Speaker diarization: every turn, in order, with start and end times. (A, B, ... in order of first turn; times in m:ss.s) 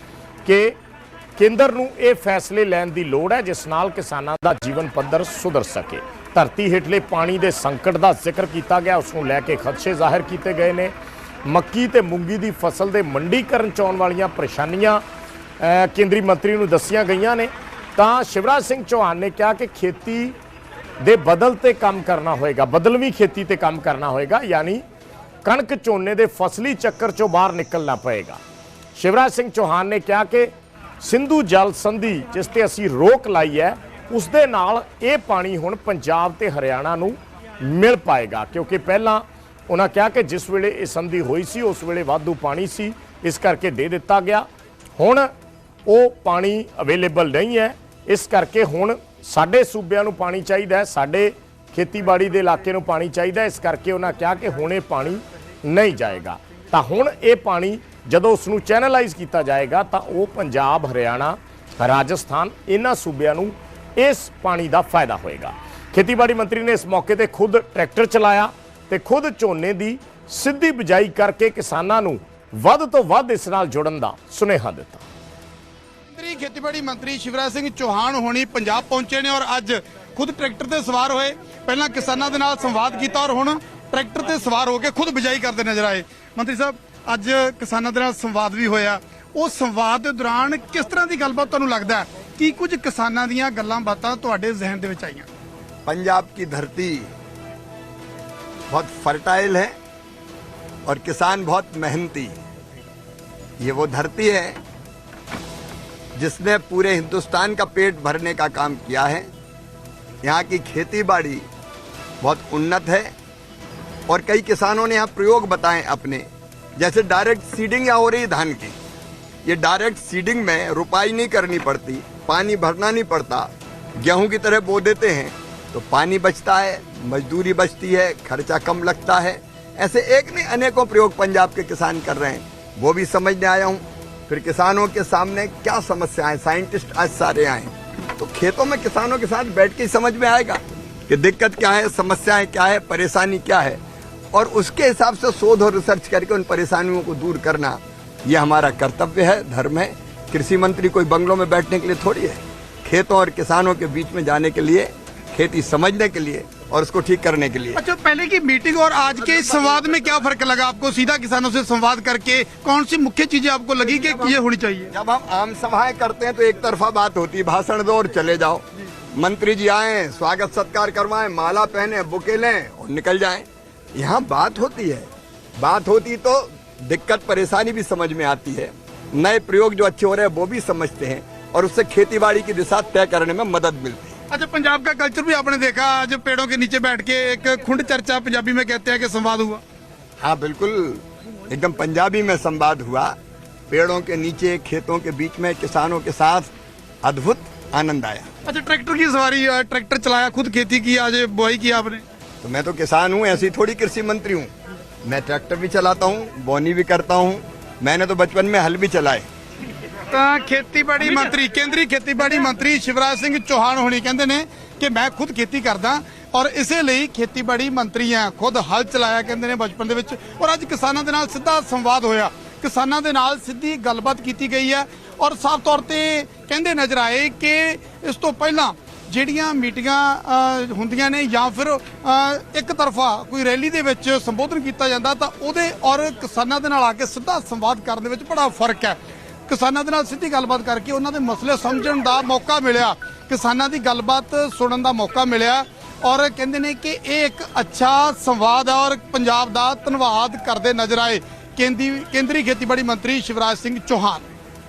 0:00.4-0:00.7 A
0:01.4-0:10.9 A
0:11.4-0:15.0 A
0:15.6-0:20.3 A
0:21.0-0:24.8 A
0:25.4-0:28.4 A
0:29.0-0:45.3 A
0:45.8-1:15.0 A
1:16.1-1:35.3 B
1:35.8-1:37.1 C
1:38.7-1:39.7 C
1:40.8-1:42.4 C
1:43.6-1:44.6 C
1:46.2-1:49.2 C
1:50.2-1:51.4 C
1:52.2-1:53.1 C
1:54.1-1:58.8 C
1:59.4-2:23.8 C
2:24.3-2:37.8 C
2:37.7-2:44.9 B
2:44.9-3:04.2 C
3:04.3-3:09.6 B
3:10.2-3:13.1 C
3:13.7-3:16.5 C
3:17.0-3:18.3 C
3:18.4-3:22.0 B
3:22.4-3:24.5 C
3:25.0-3:29.3 C
3:30.1-4:14.2 B